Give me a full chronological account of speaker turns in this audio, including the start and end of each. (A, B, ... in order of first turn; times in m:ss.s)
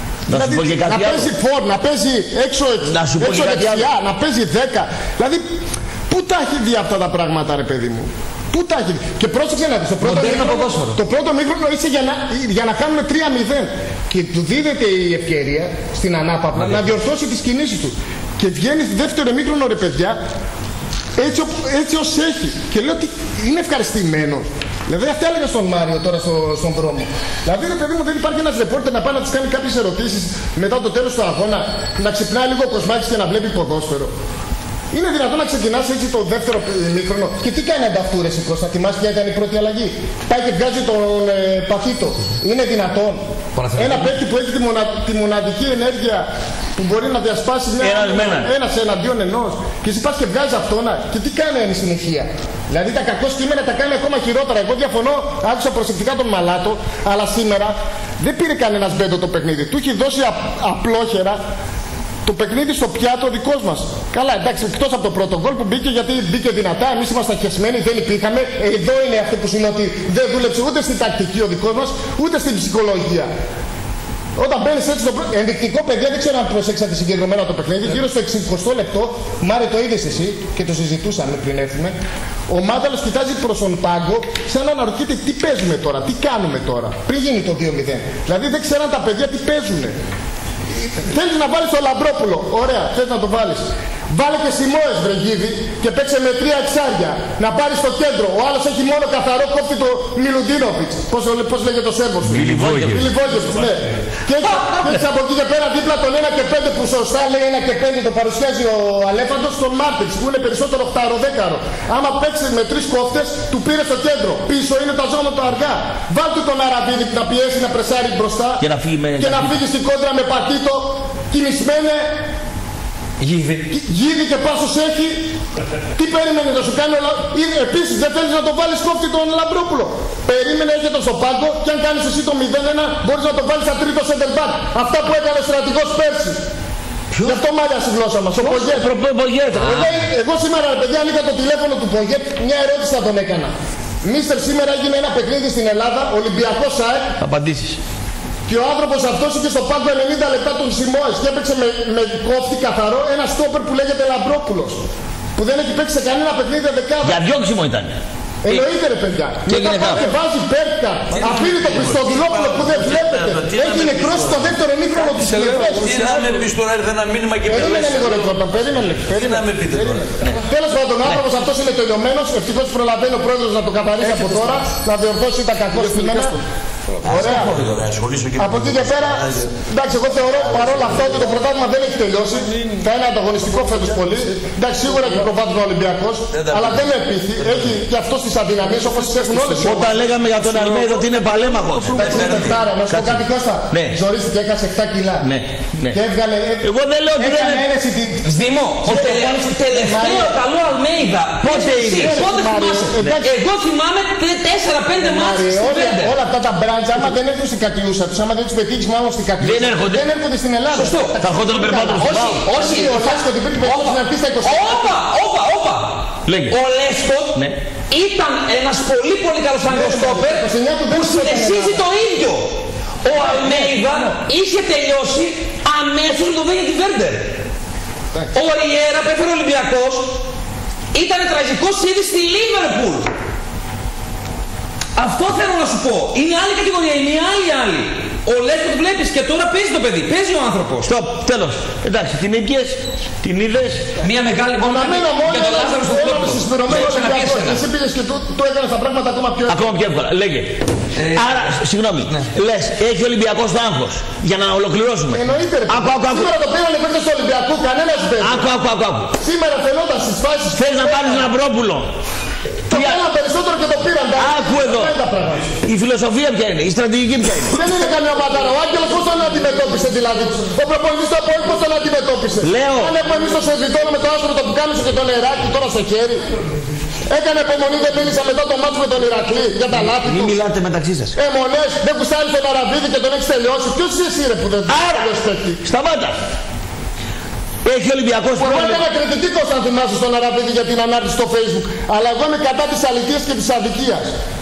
0:00.3-0:01.3 A
0:00.3-0:05.4 B
0:02.9-0:03.9 A
0:06.1-0:20.2 B
0:10.0-0:10.9 A
0:21.2-0:34.1 B
0:34.9-0:43.2 B
0:43.6-0:44.1 C
0:43.7-1:01.4 B
0:47.8-0:48.5 A
1:02.2-1:13.3 B
1:14.4-1:22.0 B
1:22.5-1:30.0 B
1:30.8-1:58.6 B
1:42.3-1:43.1 A
1:44.4-1:45.0 C
1:58.6-1:59.6 A
1:59.2-2:02.1 B
2:03.2-2:03.6 C
2:03.7-2:05.3 B
2:06.0-2:16.4 B
2:17.1-2:17.4 A
2:17.2-2:18.9 B
2:18.4-2:19.9 A
2:19.6-2:23.5 B
2:24.0-2:27.0 B
2:27.2-2:27.8 A
2:28.5-2:34.8 B
2:35.4-2:37.2 B
2:37.0-2:38.0 A
2:38.4-2:46.4 B
2:39.5-2:40.1 C
2:39.6-2:40.0 A
2:41.3-2:44.3 D
2:42.8-2:44.5 A
2:45.1-2:50.3 D
2:47.4-2:56.4 B
2:50.1-2:50.4 A
2:54.2-2:54.6 D
2:55.7-2:56.3 D
2:57.0-2:59.5 D
2:57.0-2:57.9 A
2:57.0-2:57.5 B
2:58.4-3:10.0 B
3:00.6-3:01.2 D
3:03.6-3:03.9 D
3:06.3-3:06.8 D
3:07.4-3:07.7 D
3:08.9-3:12.6 D
3:09.6-3:14.0 A
3:12.0-3:15.3 B
3:15.2-3:16.0 A
3:15.9-3:18.3 B
3:16.6-3:17.7 A
3:18.2-3:26.1 C
3:18.8-3:20.4 B
3:21.4-3:23.3 B
3:21.4-3:22.2 A
3:25.0-3:35.0 B
3:29.4-3:30.0 A
3:30.7-3:31.2 C
3:31.2-3:32.4 A
3:31.9-3:47.4 C
3:36.3-3:36.6 A
3:39.7-3:41.9 B
3:43.2-3:43.8 B
3:48.3-3:50.2 C
3:50.9-3:53.1 C
3:55.0-4:00.9 C
4:00.8-4:03.9 A
4:04.0-4:07.6 C
4:04.6-4:09.8 B
4:09.5-4:16.3 A
4:11.0-4:11.5 C
4:15.1-4:18.5 B
4:18.2-4:19.1 A
4:19.2-4:21.3 B
4:20.6-4:21.9 A
4:22.7-4:25.5 B
4:22.7-4:23.0 A
4:24.2-4:25.0 A
4:25.6-4:27.6 A
4:27.5-4:36.2 B
4:32.4-4:33.0 A
4:37.1-4:40.4 B
4:39.7-4:41.2 A
4:41.2-4:45.6 B
4:44.7-4:45.1 A
4:45.6-4:46.2 A
4:47.6-4:48.8 A
4:48.4-4:54.2 B